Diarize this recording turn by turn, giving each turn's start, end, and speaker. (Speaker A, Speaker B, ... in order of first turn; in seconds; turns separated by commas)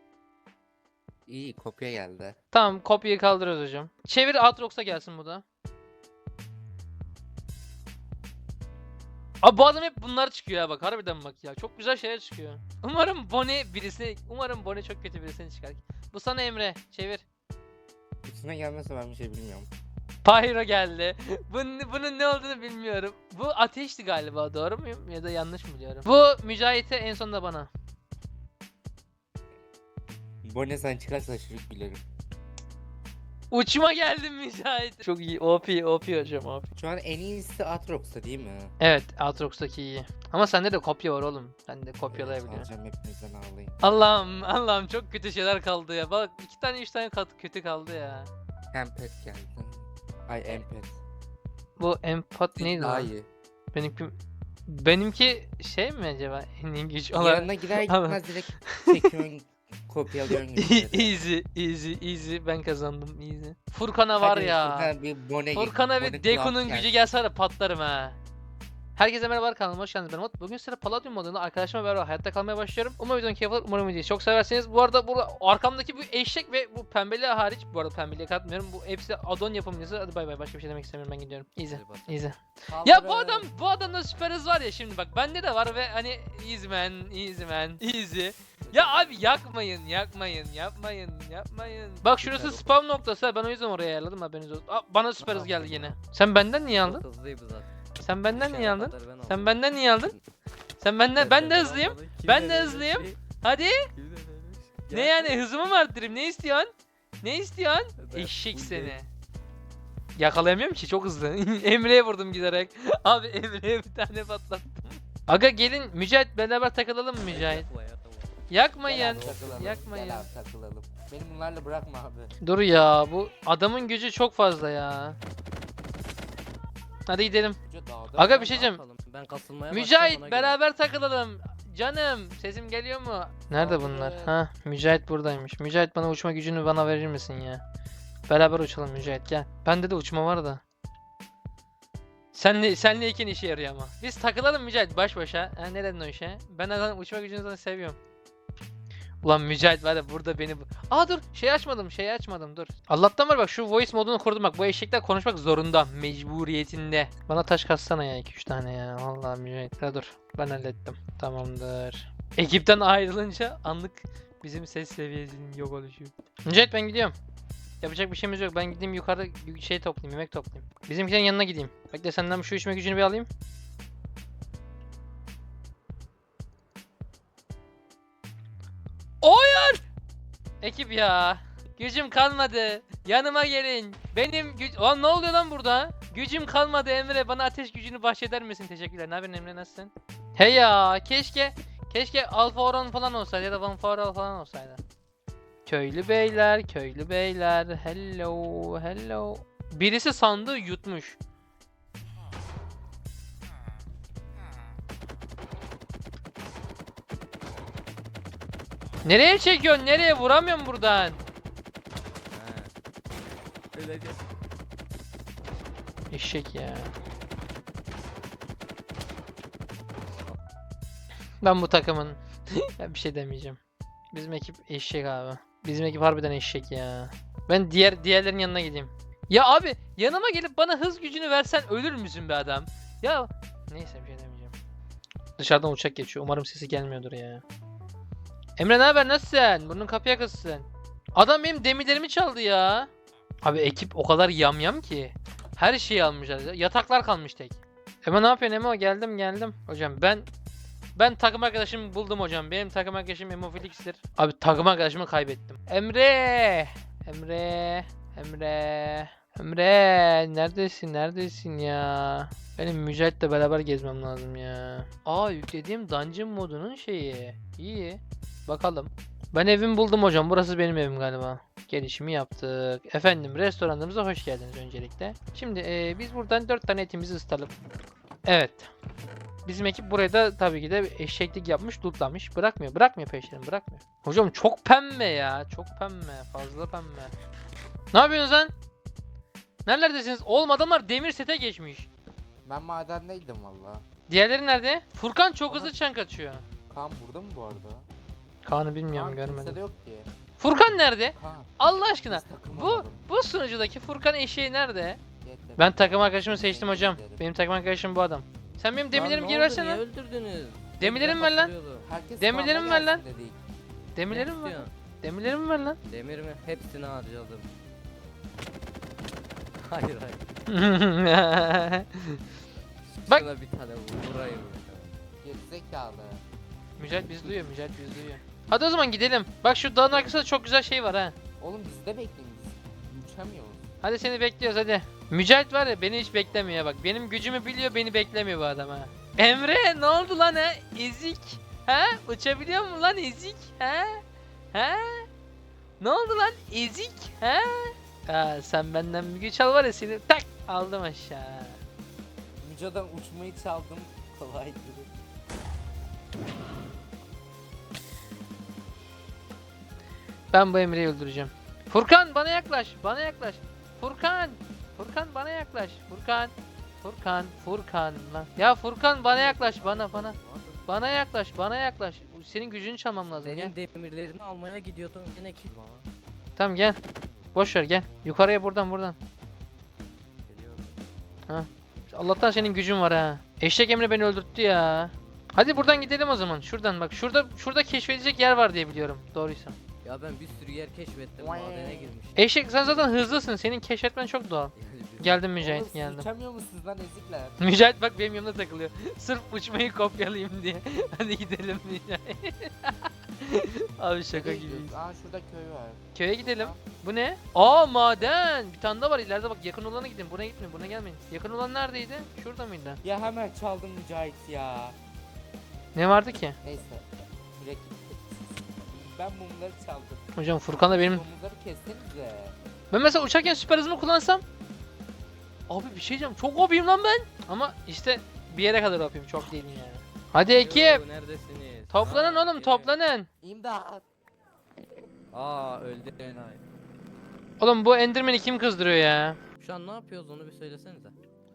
Speaker A: 1.3-2.4, Speaker B: 2.5-5.4, Speaker B: 9.4-17.2, Speaker A: 18.2-19.7, Speaker B: 20.2-27.7, Speaker A: 30.4-32.0, Speaker B: 33.5-36.7, Speaker A: 36.8-38.7, Speaker B: 38.8-42.7, Speaker A: 42.1-43.8, Speaker B: 43.8-48.3, Speaker A: 48.7-51.0, Speaker B: 51.8-53.1, Speaker A: 52.5-53.3, Speaker B: 53.7-54.1, Speaker B: 54.7-59.0, Speaker A: 57.1-61.1, Speaker B: 60.5-64.9, Speaker A: 64.2-67.1, Speaker B: 65.5-68.2, Speaker B: 69.0-97.0, Speaker C: 81.7-82.2, Speaker A: 82.7-83.5, Speaker C: 92.0-92.7, Speaker C: 95.2-95.9, Speaker C: 96.8-97.7, Speaker B: 98.0-100.2, Speaker C: 98.3-99.6, Speaker B: 100.8-103.9, Speaker C: 101.2-103.2, Speaker C: 103.9-105.3, Speaker B: 104.9-106.7, Speaker B: 107.2-109.1, Speaker C: 108.0-109.0, Speaker B: 110.2-117.7, Speaker C: 117.2-118.3, Speaker B: 118.5-120.3, Speaker A: 118.8-122.3, Speaker B: 122.4-125.2, Speaker B: 127.1-127.6, Speaker A: 127.7-128.7, Speaker B: 128.2-128.8, Speaker C: 128.3-130.6, Speaker B: 129.7-137.6, Speaker A: 133.5-134.3, Speaker B: 138.3-140.6, Speaker B: 142.3-148.0, Speaker B: 149.2-167.1, Speaker B: 167.8-173.3, Speaker B: 179.2-179.8, Speaker B: 180.6-194.8, Speaker B: 195.7-201.2, Speaker B: 209.0-211.2, Speaker C: 212.3-212.7, Speaker C: 213.7-214.2, Speaker B: 216.1-216.9, Speaker B: 221.4-223.6, Speaker B: 224.1-234.5, Speaker B: 235.4-237.4, Speaker B: 238.6-242.9, Speaker B: 243.4-250.3, Speaker B: 250.9-277.5, Speaker B: 278.2-278.7, Speaker B: 279.4-287.1, Speaker B: 287.9-288.5, Speaker B: 289.6-291.9, Speaker A: 292.4-293.9, Speaker B: 294.1-296.4, Speaker A: 296.7-297.9, Speaker B: 298.4-299.6, Speaker A: 298.9-300.1, Speaker B: 300.4-305.0, Speaker A: 301.1-303.1, Speaker A: 305.2-307.3, Speaker B: 305.6-309.8, Speaker C: 308.9-311.9, Speaker B: 310.8-311.5, Speaker A: 311.8-313.4, Speaker B: 312.2-313.0, Speaker B: 313.9-315.8, Speaker C: 314.1-314.7, Speaker C: 315.9-317.5, Speaker C: 319.6-320.2, Speaker B: 320.5-322.2, Speaker C: 323.0-324.9, Speaker A: 325.2-326.2, Speaker B: 326.8-331.1, Speaker A: 331.4-333.7, Speaker B: 333.8-345.1, Speaker B: 345.8-351.6, Speaker A: 352.4-354.9, Speaker B: 360.3-373.5, Speaker C: 369.0-370.7, Speaker C: 373.1-375.9, Speaker B: 376.4-376.8, Speaker B: 377.3-379.0, Speaker C: 380.2-380.8, Speaker B: 381.3-389.6, Speaker C: 389.8-392.8, Speaker A: 391.2-392.0, Speaker B: 392.1-396.1, Speaker C: 394.5-395.2, Speaker A: 395.4-397.4, Speaker B: 397.4-404.7, Speaker A: 404.1-406.6, Speaker B: 405.9-412.8, Speaker A: 412.8-414.8, Speaker B: 415.7-416.4, Speaker A: 416.4-422.4, Speaker B: 420.1-421.0, Speaker B: 422.7-424.2, Speaker B: 425.5-430.8, Speaker C: 430.3-432.8, Speaker B: 431.7-433.1, Speaker A: 433.2-433.8, Speaker C: 435.1-436.4, Speaker B: 437.4-439.2, Speaker C: 439.4-440.9